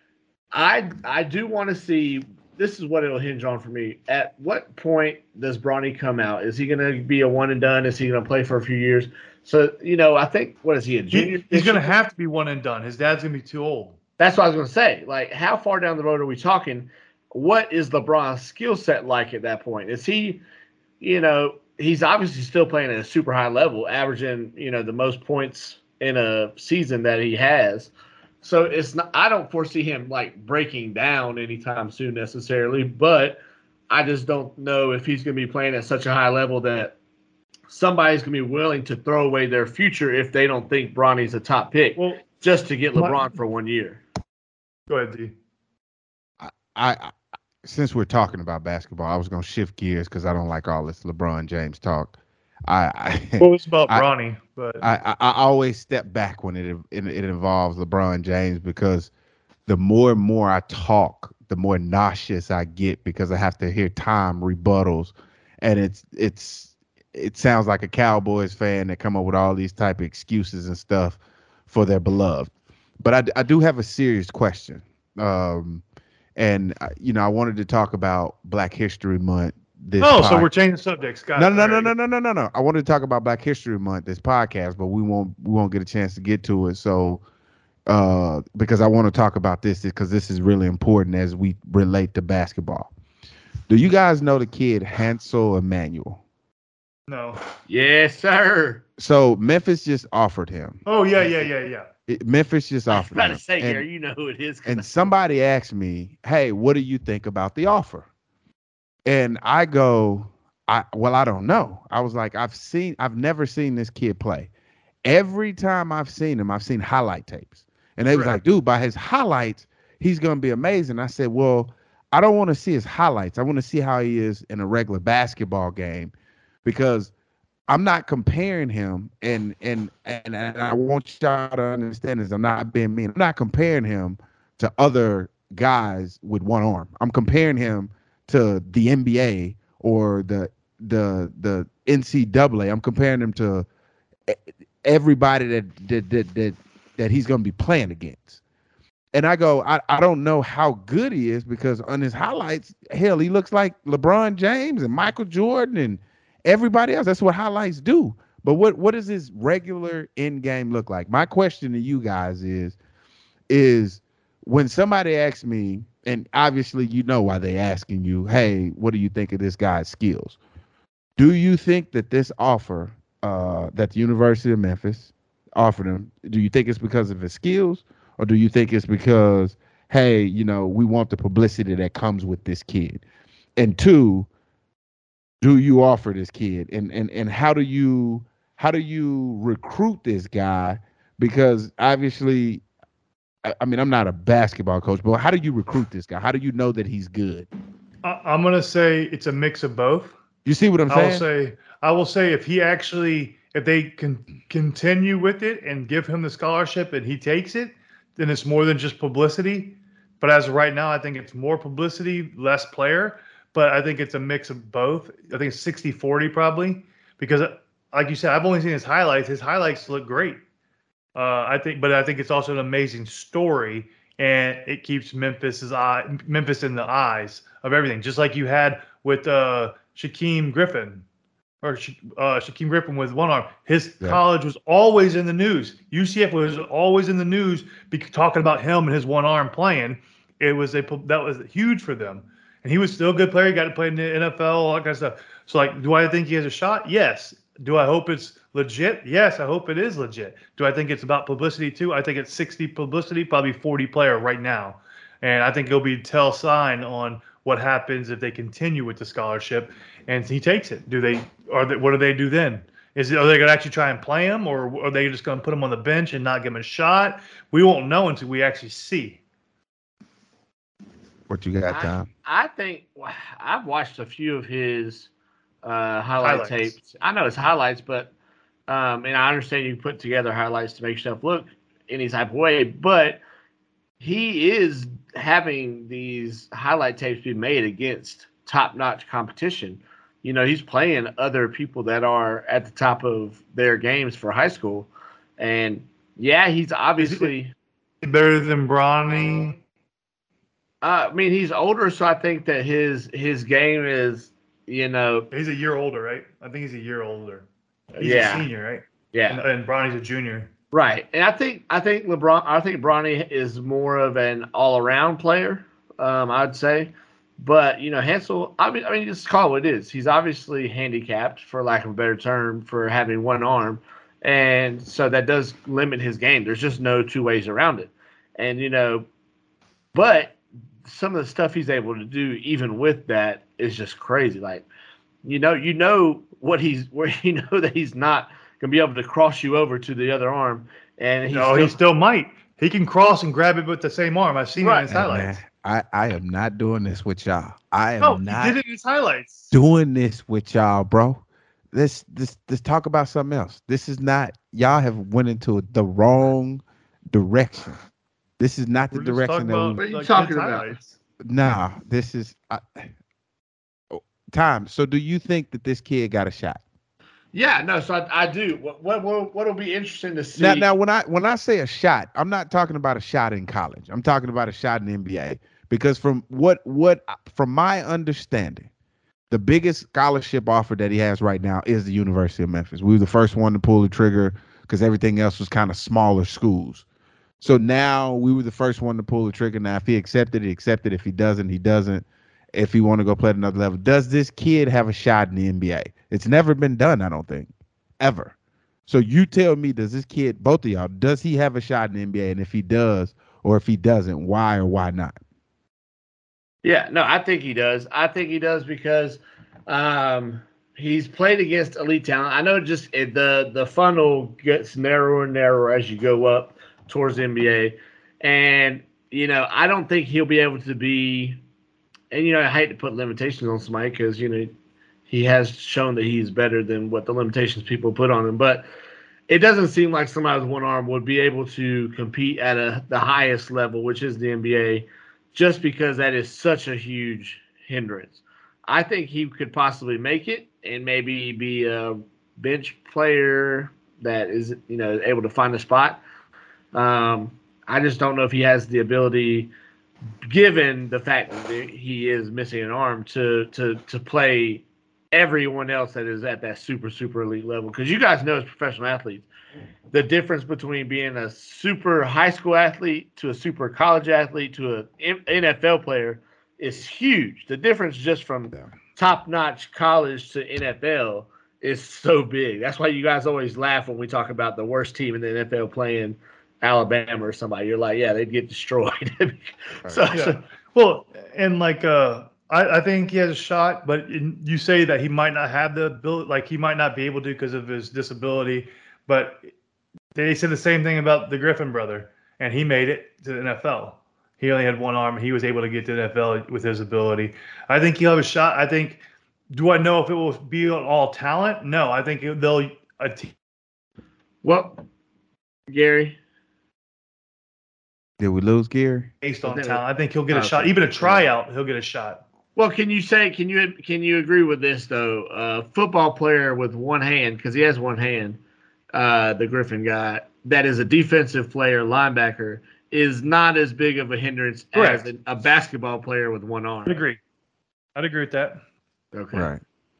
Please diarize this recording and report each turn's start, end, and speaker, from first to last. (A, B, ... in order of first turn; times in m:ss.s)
0:00.5-0:11.9 A
0:11.1-0:14.0 B
0:14.2-0:20.4 A
0:21.0-0:27.9 A
0:28.4-0:37.0 A
0:37.7-0:44.0 A
0:42.0-0:42.2 B
0:43.0-0:43.3 B
0:44.9-0:45.3 B
0:46.4-0:47.1 C
0:47.6-0:52.2 C
0:52.7-0:54.0 C
0:53.4-0:54.8 B
0:54.8-0:59.1 C
0:59.7-1:15.8 C
1:16.4-1:20.5 C
1:20.0-1:21.9 B
1:21.4-1:27.2 C
1:27.9-1:32.9 C
1:33.7-1:36.2 C
1:37.1-1:37.4 B
1:37.7-1:38.8 A
1:39.0-1:41.5 C
1:40.9-1:41.9 B
1:42.1-1:43.9 C
1:42.9-1:45.1 A
1:44.7-1:48.1 C
1:49.1-1:54.5 C
1:55.0-2:06.1 C
1:58.1-1:58.4 B
2:06.6-2:07.1 C
2:07.7-2:23.7 C
2:24.3-2:28.4 C
2:29.1-2:42.8 C
2:43.5-2:50.4 C
2:51.2-3:03.0 C
3:03.6-3:04.3 C
3:05.4-3:12.6 C
3:13.4-3:17.5 C
3:18.0-3:20.2 B
3:20.4-3:21.2 C
3:20.9-3:40.4 B
3:41.2-3:51.1 B
3:51.6-4:29.2 B
4:31.3-4:32.1 C
4:31.7-4:35.1 A
4:35.6-4:38.1 A
4:36.2-4:36.7 B
4:38.7-4:43.2 A
4:44.0-4:57.5 A
4:57.0-4:57.3 B
4:58.0-4:59.6 B
5:00.8-5:05.3 A
5:05.3-5:07.5 B
5:08.0-5:08.5 A
5:08.0-5:10.5 B
5:09.1-5:09.4 A
5:10.7-5:29.1 A
5:29.9-5:34.7 A
5:35.2-5:41.8 A
5:41.3-5:45.4 B
5:44.6-5:44.9 A
5:44.9-5:48.6 C
5:48.0-5:49.5 B
5:49.5-5:57.8 C
5:58.4-5:59.8 C
5:58.9-6:01.0 B
5:59.8-6:00.8 A
6:01.2-6:02.9 C
6:03.9-6:06.6 C
6:07.3-6:10.7 A
6:10.4-6:18.7 C
6:19.3-6:26.8 C
6:27.4-6:38.3 C
6:38.9-6:45.2 C
6:46.6-7:01.4 A
7:02.1-7:04.5 A
7:05.1-7:08.7 A
7:09.3-7:26.0 A
7:26.7-7:29.5 A
7:30.2-7:39.3 A
7:39.9-8:00.4 A
8:00.1-8:09.4 B
8:10.2-8:19.0 B
8:19.5-8:23.3 B
8:24.4-8:24.8 A
8:25.7-8:26.2 A
8:28.2-8:29.1 C
8:29.2-8:32.2 B
8:29.4-8:31.3 A
8:32.6-8:38.4 A
8:38.9-8:47.0 A
8:44.7-8:45.1 B
8:46.9-8:47.2 B
8:48.0-8:48.6 B
8:49.1-8:49.5 A
8:49.3-8:49.6 C